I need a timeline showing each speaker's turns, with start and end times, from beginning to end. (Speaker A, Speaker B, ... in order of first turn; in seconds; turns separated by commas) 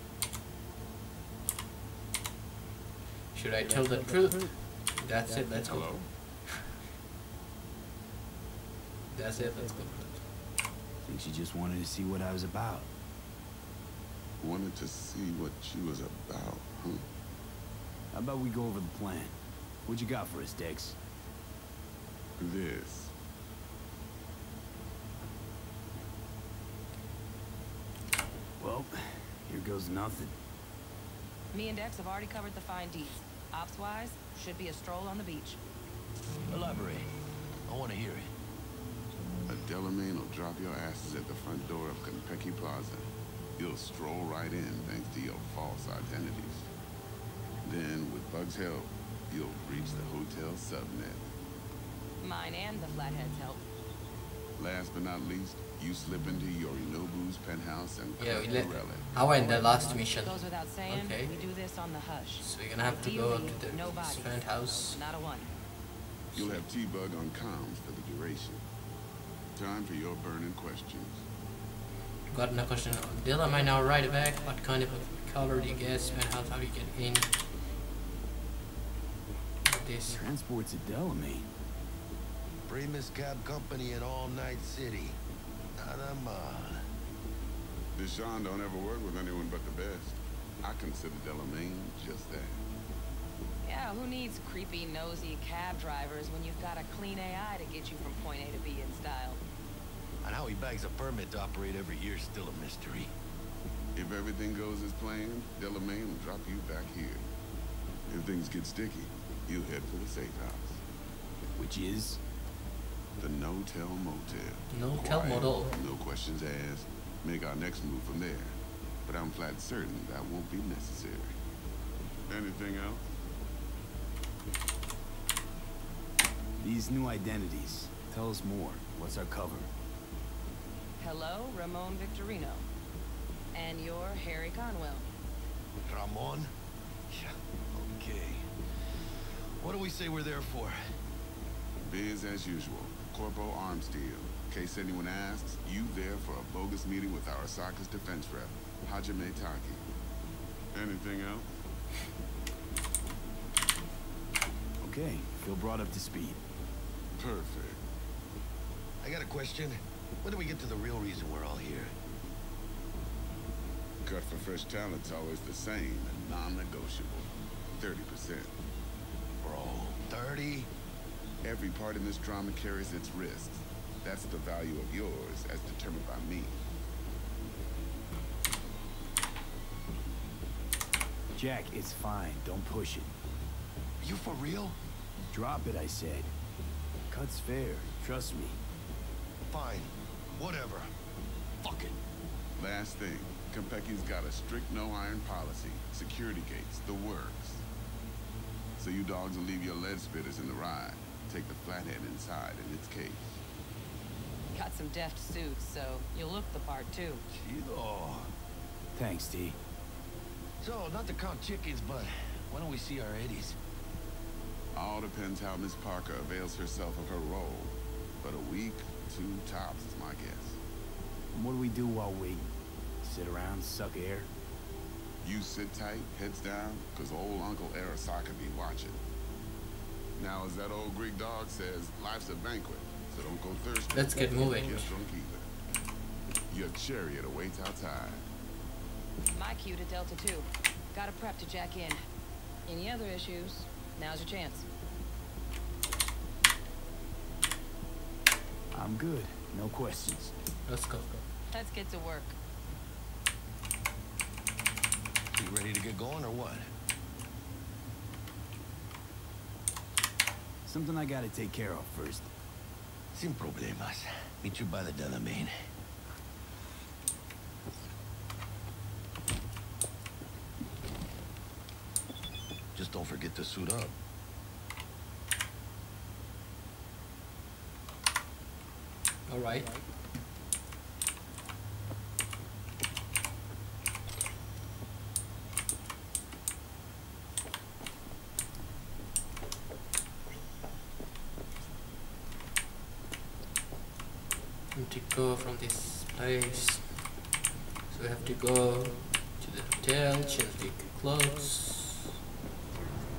Speaker A: 3.3-6.0, Speaker B: 5.7-6.1, Speaker A: 9.1-10.2, Speaker C: 11.1-12.9, Speaker B: 14.4-17.1, Speaker C: 18.1-21.0, Speaker B: 22.4-23.1, Speaker C: 28.6-30.4, Speaker D: 31.5-35.6, Speaker E: 36.5-37.1, Speaker E: 37.7-38.3, Speaker B: 39.5-46.7, Speaker B: 47.6-51.3, Speaker D: 52.2-53.6, Speaker B: 54.6-59.1, Speaker A: 58.2-61.4, Speaker D: 60.1-65.5, Speaker A: 62.4-65.0, Speaker B: 66.3-68.6, Speaker D: 66.4-66.6, Speaker B: 69.5-71.2, Speaker A: 72.3-77.3, Speaker A: 79.7-80.2, Speaker C: 80.1-81.5, Speaker E: 82.7-85.2, Speaker E: 85.8-86.8, Speaker B: 88.0-92.6, Speaker D: 93.6-99.4, Speaker E: 100.2-103.1, Speaker B: 104.0-107.3, Speaker B: 108.1-110.8, Speaker C: 111.6-112.2, Speaker B: 113.2-121.3, Speaker A: 114.7-115.8, Speaker B: 122.3-123.0, Speaker C: 126.6-129.7, Speaker D: 131.0-132.7, Speaker D: 133.5-135.1, Speaker E: 135.8-136.5, Speaker E: 137.1-140.8, Speaker B: 141.8-149.8, Speaker B: 150.7-151.5, Speaker C: 154.8-156.4, Speaker B: 157.2-157.8, Speaker E: 159.0-161.9, Speaker B: 164.0-168.5, Speaker E: 169.4-170.7, Speaker B: 171.4-176.6, Speaker C: 181.3-183.1, Speaker E: 184.0-184.8, Speaker C: 185.3-186.3, Speaker C: 187.1-188.6, Speaker E: 189.5-190.9, Speaker E: 191.6-192.0, Speaker B: 192.6-197.6, Speaker B: 198.8-203.4, Speaker D: 204.5-207.2, Speaker E: 207.3-208.3, Speaker C: 208.9-209.6, Speaker E: 210.6-213.6, Speaker B: 214.7-220.6, Speaker C: 221.3-224.3, Speaker B: 225.2-229.0, Speaker B: 230.2-235.5, Speaker A: 233.9-234.9, Speaker B: 236.5-238.3, Speaker D: 239.3-242.0, Speaker D: 242.7-244.7, Speaker C: 248.7-250.3, Speaker A: 250.7-251.2, Speaker D: 251.5-252.3, Speaker E: 255.4-256.7, Speaker C: 260.7-262.3, Speaker E: 263.1-265.5, Speaker E: 272.7-273.9, Speaker A: 279.3-279.7, Speaker A: 294.7-296.9, Speaker A: 297.9-302.1